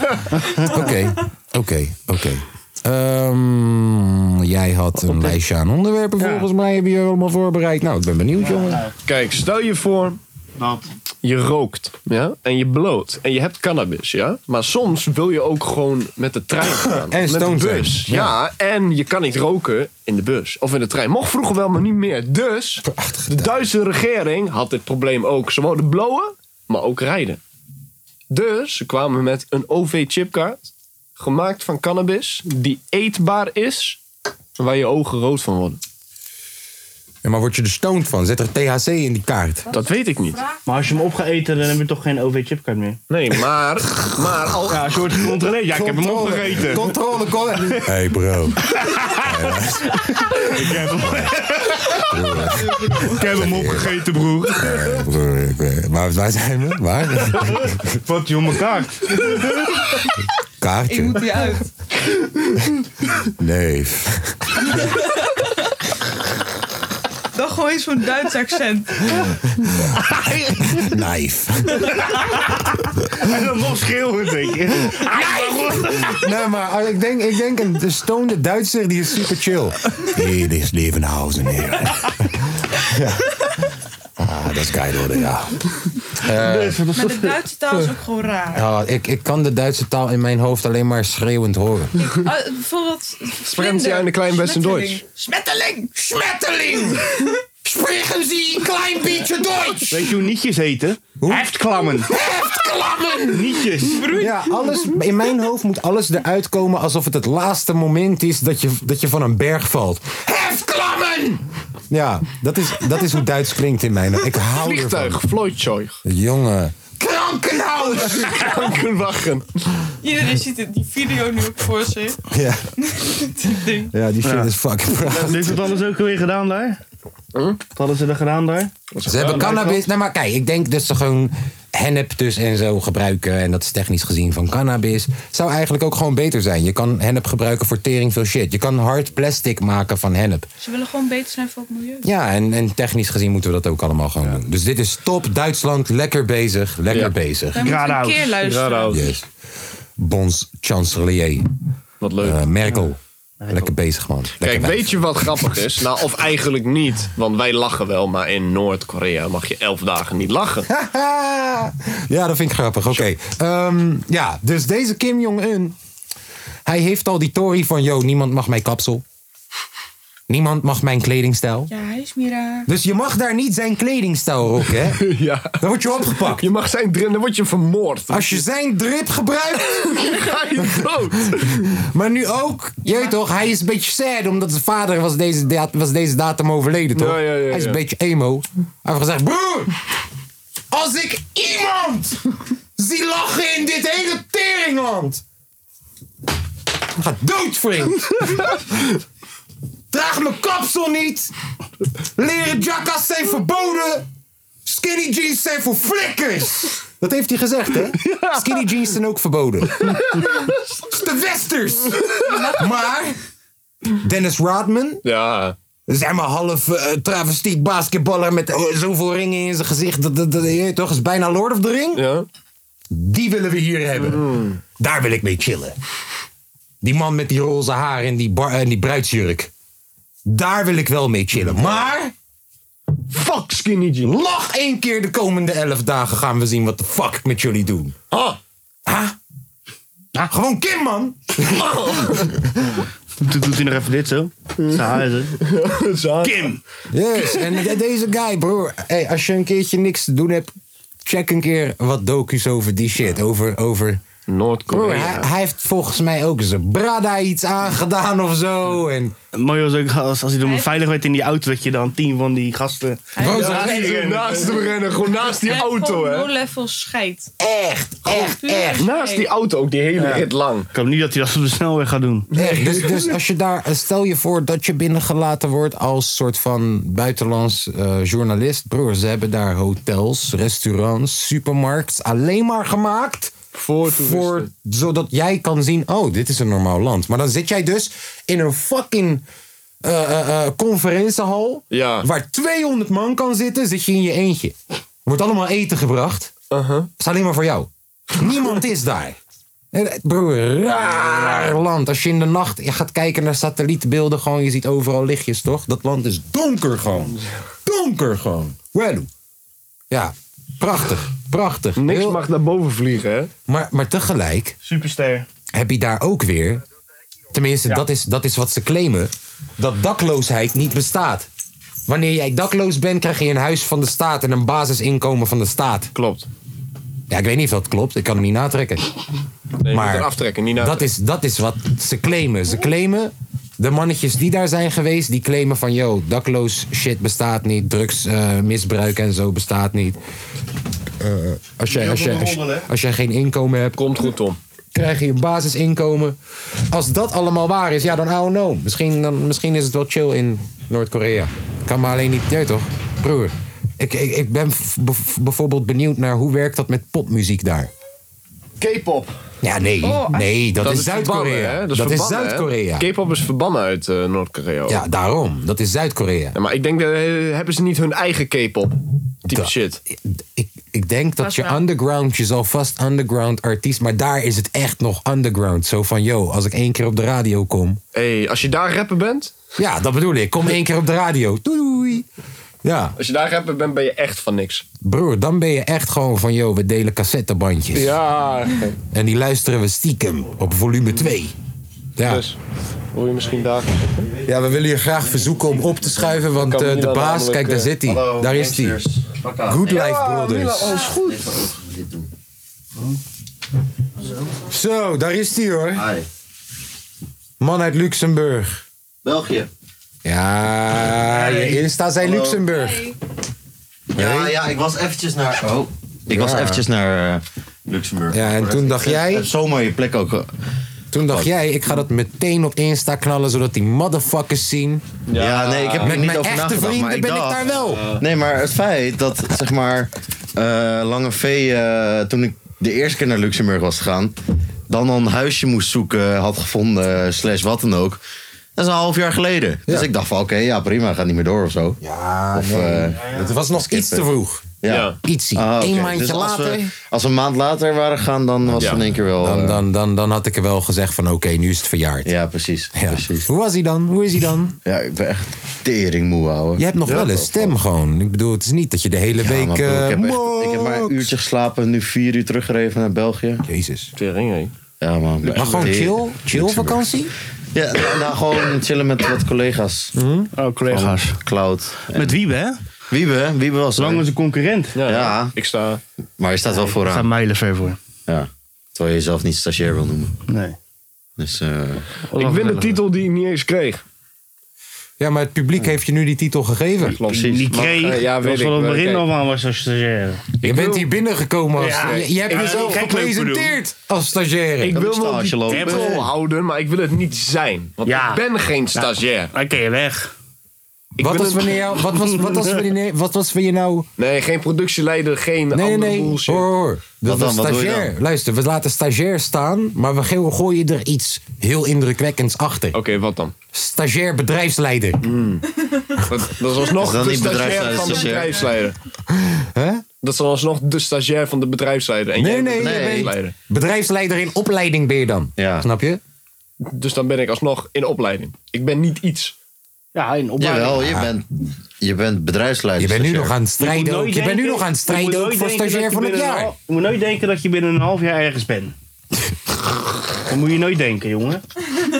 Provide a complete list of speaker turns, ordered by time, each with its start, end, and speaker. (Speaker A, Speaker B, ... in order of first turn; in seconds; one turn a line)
Speaker A: 0.3-0.8
Speaker B: 0.6-8.8
Speaker C: 0.7-1.0
Speaker A: 5.0-5.3
Speaker A: 6.2-6.5
Speaker A: 8.5-8.9
Speaker D: 9.1-10.2
Speaker A: 10.6-10.9
Speaker D: 11.2-27.4
Speaker B: 17.0-18.3
Speaker B: 22.8-23.6
Speaker D: 28.3-34.0
Speaker D: 34.6-35.8
Speaker B: 37.2-39.6
Speaker C: 39.7-40.6
Speaker D: 39.7-40.4
Speaker A: 40.6-43.0
Speaker D: 43.1-45.0
Speaker A: 44.7-46.9
Speaker B: 45.7-50.4
Speaker A: 48.8-49.3
Speaker A: 50.1-52.0
Speaker B: 50.9-51.4
Speaker B: 52.0-54.0
Speaker A: 52.9-54.6
Speaker B: 54.6-58.0
Speaker A: 58.0-59.7
Speaker B: 60.6-61.2
Speaker C: 60.9-61.7
Speaker B: 63.4-64.7
Speaker C: 64.8-65.7
Speaker C: 67.3-69.3
Speaker B: 69.6-72.0
Speaker A: 70.0-70.6
Speaker A: 73.1-76.2
Speaker B: 74.9-82.3
Speaker B: 82.8-83.3
Speaker B: 84.2-86.8
Speaker A: 86.3-87.4
Speaker C: 86.9-88.6
Speaker B: 88.5-91.9
Speaker C: 92.0-95.9
Speaker D: 93.5-95.0
Speaker B: 95.9-100.1
Speaker A: 99.9-102.1
Speaker B: 101.2-115.2
Speaker A: 103.3-104.2
Speaker C: 103.9-104.8
Speaker D: 114.6-116.0
Speaker B: 116.0-118.7
Speaker D: 118.1-119.5
Speaker C: 120.0-122.2
Speaker B: 122.3-122.7
Speaker C: 122.9-123.9
Speaker B: 123.9-125.6
Speaker A: 124.2-126.8
Speaker D: 127.3-127.6
Speaker A: 127.7-129.8
Speaker D: 128.9-129.7
Speaker B: 129.0-140.5
Speaker C: 140.6-142.1
Speaker B: 142.0-147.7
Speaker C: 147.5-149.0
Speaker A: 147.6-148.3
Speaker D: 148.4-149.0
Speaker B: 148.9-149.3
Speaker B: 150.0-151.5
Speaker D: 152.0-152.4
Speaker B: 152.2-153.0
Speaker A: 153.4-153.7
Speaker B: 153.5-155.3
Speaker D: 154.4-160.7
Speaker B: 160.7-165.8
Speaker B: 166.6-169.0
Speaker B: 170.3-171.7
Speaker C: 171.7-172.7
Speaker B: 172.7-176.4
Speaker D: 175.0-175.6
Speaker D: 176.1-178.4
Speaker B: 178.1-180.9
Speaker D: 179.7-181.7
Speaker B: 181.6-189.7
Speaker C: 182.8-183.1
Speaker D: 186.9-187.8
Speaker B: 190.7-192.2
Speaker B: 192.8-195.2
Speaker B: 196.9-198.6
Speaker B: 199.9-201.3
Speaker B: 202.2-204.1
Speaker B: 204.6-213.2
Speaker A: 208.1-208.4
Speaker B: 214.0-215.0
Speaker D: 215.0-215.6
Speaker B: 215.9-222.0
Speaker D: 221.9-222.3
Speaker B: 222.9-224.2
Speaker D: 224.0-224.6
Speaker B: 224.8-225.7
Speaker B: 226.8-229.5
Speaker B: 230.2-232.1
Speaker D: 233.1-234.2
Speaker B: 234.0-237.9
Speaker D: 238.1-238.4
Speaker B: 238.8-239.2
Speaker B: 240.2-242.8
Speaker D: 241.6-242.3
Speaker A: 243.2-245.3
Speaker D: 245.4-246.5
Speaker A: 246.2-246.6
Speaker B: 246.9-250.5
Speaker B: 251.0-254.0
Speaker D: 254.3-255.3
Speaker B: 254.7-259.1
Speaker A: 259.3-264.6
Speaker C: 260.4-260.7
Speaker C: 263.1-263.8
Speaker B: 263.2-263.8
Speaker D: 263.2-266.3
Speaker C: 265.4-267.3
Speaker B: 267.4-268.9
Speaker C: 268.1-269.3
Speaker D: 268.8-270.7
Speaker A: 270.0-272.3
Speaker D: 272.3-273.1
Speaker B: 272.4-283.3
Speaker D: 283.5-284.5
Speaker B: 283.9-289.2
Speaker B: 289.8-296.3
Speaker D: 291.7-292.1
Speaker D: 296.5-296.9
Speaker B: 297.0-299.2
Speaker B: 299.7-309.1
Speaker B: 309.9-312.2
Speaker D: 311.8-313.3
Speaker B: 313.5-314.6
Speaker A: 314.6-315.3
Speaker B: 315.5-316.6
Speaker B: 317.3-321.3
Speaker B: 321.9-325.9
Speaker D: 325.9-326.3
Speaker B: 327.1-328.8
Speaker D: 329.6-330.9
Speaker B: 329.7-340.0
Speaker B: 341.0-343.8
Speaker A: 342.1-342.6
Speaker D: 343.8-344.4
Speaker B: 344.7-346.2
Speaker B: 346.7-357.7
Speaker A: 358.6-359.0
Speaker B: 359.4-362.9
Speaker C: 359.8-360.3
Speaker D: 360.6-364.8
Speaker B: 364.7-366.3
Speaker D: 366.3-368.7
Speaker D: 369.2-369.8
Speaker B: 369.3-377.8
Speaker C: 371.2-371.6
Speaker D: 377.9-379.4
Speaker B: 379.6-382.1
Speaker B: 382.6-382.9
Speaker D: 383.0-384.6
Speaker B: 384.8-388.0
Speaker D: 387.7-388.8
Speaker B: 388.9-391.3
Speaker B: 392.0-392.2
Speaker D: 392.0-392.4
Speaker D: 392.9-394.1
Speaker B: 394.2-398.8
Speaker D: 396.4-397.8
Speaker E: 397.8-399.7
Speaker B: 399.5-400.9
Speaker D: 399.6-401.5
Speaker E: 401.0-402.1
Speaker B: 404.5-405.9
Speaker E: 405.7-406.1
Speaker B: 407.4-408.6
Speaker E: 409.0-409.5
Speaker B: 410.0-412.9
Speaker E: 411.2-412.4
Speaker C: 412.5-412.9
Speaker E: 413.9-420.3
Speaker B: 413.9-414.4
Speaker B: 416.1-416.6
Speaker B: 418.1-419.3
Speaker B: 420.9-424.8
Speaker E: 421.0-421.3
Speaker D: 425.1-426.0
Speaker E: 425.1-434.1
Speaker B: 425.8-427.9
Speaker D: 427.5-428.0
Speaker E: 434.7-438.0
Speaker E: 438.6-441.8
Speaker B: 441.8-446.7
Speaker E: 442.3-444.1
Speaker E: 444.6-449.6
Speaker D: 444.7-445.0
Speaker B: 448.5-452.1
Speaker E: 452.0-453.3
Speaker B: 452.7-454.6
Speaker E: 454.6-457.5
Speaker B: 456.6-461.1
Speaker E: 459.2-463.4
Speaker B: 463.4-463.9
Speaker D: 463.9-464.5
Speaker E: 464.8-466.8
Speaker B: 465.3-467.1
Speaker E: 467.5-469.9
Speaker D: 469.9-470.3
Speaker A: 470.3-471.2
Speaker E: 470.7-472.1
Speaker A: 471.9-472.6
Speaker E: 472.9-474.0
Speaker A: 473.8-474.7
Speaker D: 474.7-475.8
Speaker E: 474.9-475.4
Speaker E: 476.2-477.1
Speaker A: 476.5-477.8
Speaker E: 478.1-480.1
Speaker A: 480.3-480.6
Speaker E: 481.2-481.9
Speaker A: 482.1-482.8
Speaker D: 482.1-483.8
Speaker B: 485.0-487.0
Speaker D: 487.0-489.1
Speaker A: 487.1-490.2
Speaker E: 487.1-487.8
Speaker D: 490.4-490.9
Speaker B: 490.4-494.8
Speaker A: 491.6-493.6
Speaker D: 491.7-492.9
Speaker D: 494.6-499.3
Speaker E: 494.7-496.1
Speaker A: 495.5-496.0
Speaker A: 497.9-498.2
Speaker A: 498.7-500.1
Speaker B: 501.0-503.9
Speaker D: 501.0-501.6
Speaker A: 501.9-502.6
Speaker D: 504.0-506.5
Speaker B: 505.5-512.8
Speaker E: 507.0-507.9
Speaker D: 512.7-513.3
Speaker B: 513.5-515.1
Speaker D: 515.0-515.4
Speaker D: 516.0-518.8
Speaker E: 516.8-518.4
Speaker B: 519.1-519.8
Speaker D: 520.0-523.3
Speaker B: 522.1-526.0
Speaker E: 522.6-523.1
Speaker E: 525.4-525.7
Speaker D: 526.6-529.3
Speaker A: 529.9-530.8
Speaker E: 530.4-531.3
Speaker B: 530.8-531.1
Speaker E: 531.8-533.4
Speaker B: 532.8-536.5
Speaker A: 533.6-538.7
Speaker A: 540.3-541.4